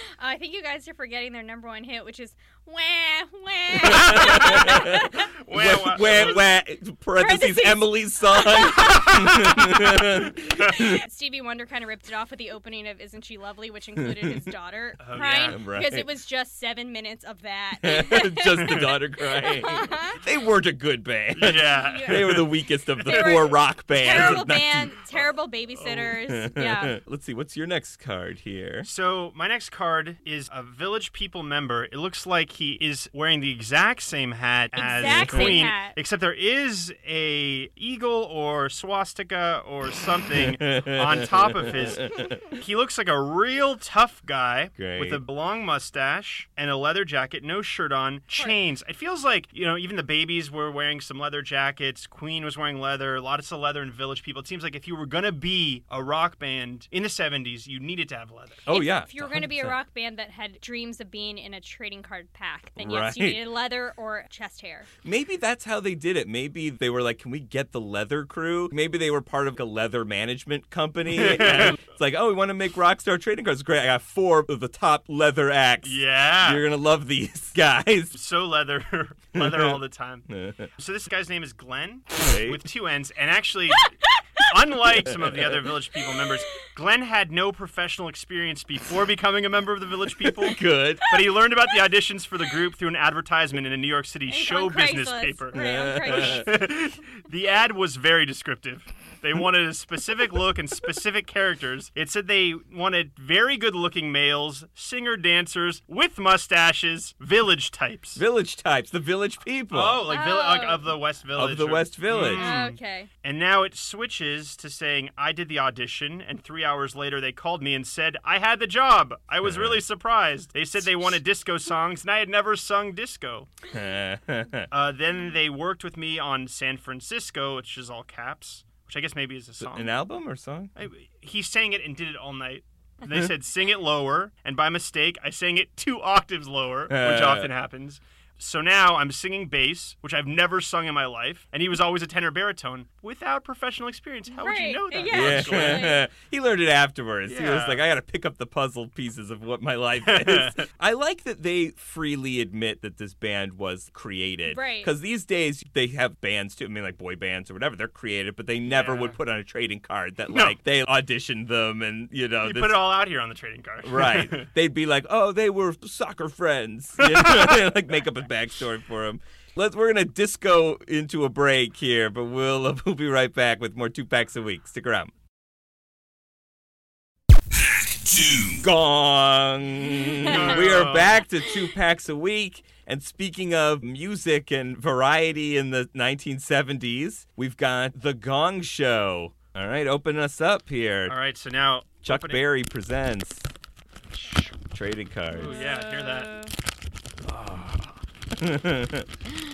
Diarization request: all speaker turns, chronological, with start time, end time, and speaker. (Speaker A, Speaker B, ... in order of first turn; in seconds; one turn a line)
Speaker A: 0.2-5.3
Speaker B: 3.8-11.0
Speaker C: 4.1-6.5
Speaker A: 6.0-6.4
Speaker A: 7.2-20.2
Speaker B: 14.0-14.4
Speaker C: 15.0-15.6
Speaker B: 15.4-16.1
Speaker B: 17.8-25.0
Speaker C: 18.6-18.9
Speaker C: 21.3-22.5
Speaker A: 21.7-27.0
Speaker C: 23.0-23.5
Speaker C: 24.1-24.4
Speaker B: 25.8-28.9
Speaker C: 28.8-58.7
Speaker A: 34.8-36.0
Speaker B: 35.1-35.6
Speaker B: 40.4-42.4
Speaker B: 44.8-45.2
Speaker B: 58.7-59.7
Speaker A: 58.7-64.9
Speaker B: 62.8-63.4
Speaker B: 65.0-78.2
Speaker C: 71.1-71.8
Speaker C: 75.8-76.6
Speaker C: 78.1-108.2
Speaker B: 79.3-80.7
Speaker B: 82.2-82.6
Speaker B: 85.0-85.6
Speaker B: 90.3-91.2
Speaker A: 94.3-96.7
Speaker B: 95.5-96.5
Speaker B: 108.2-110.1
Speaker C: 109.7-123.5
Speaker A: 110.1-111.0
Speaker B: 111.3-112.5
Speaker A: 112.2-113.1
Speaker B: 119.4-119.8
Speaker B: 123.7-124.7
Speaker C: 124.7-129.9
Speaker B: 129.6-130.7
Speaker C: 130.8-146.0
Speaker B: 136.9-137.5
Speaker A: 144.3-146.0
Speaker B: 145.1-162.8
Speaker C: 147.3-147.8
Speaker C: 150.0-150.6
Speaker A: 154.5-154.9
Speaker C: 158.7-159.2
Speaker C: 162.4-164.5
Speaker B: 163.8-175.1
Speaker C: 167.0-167.7
Speaker C: 178.1-178.6
Speaker B: 178.5-191.2
Speaker C: 180.3-181.2
Speaker C: 191.1-192.4
Speaker B: 192.0-193.5
Speaker C: 194.2-194.6
Speaker B: 194.7-195.6
Speaker C: 195.3-196.4
Speaker A: 195.3-196.5
Speaker B: 197.2-199.1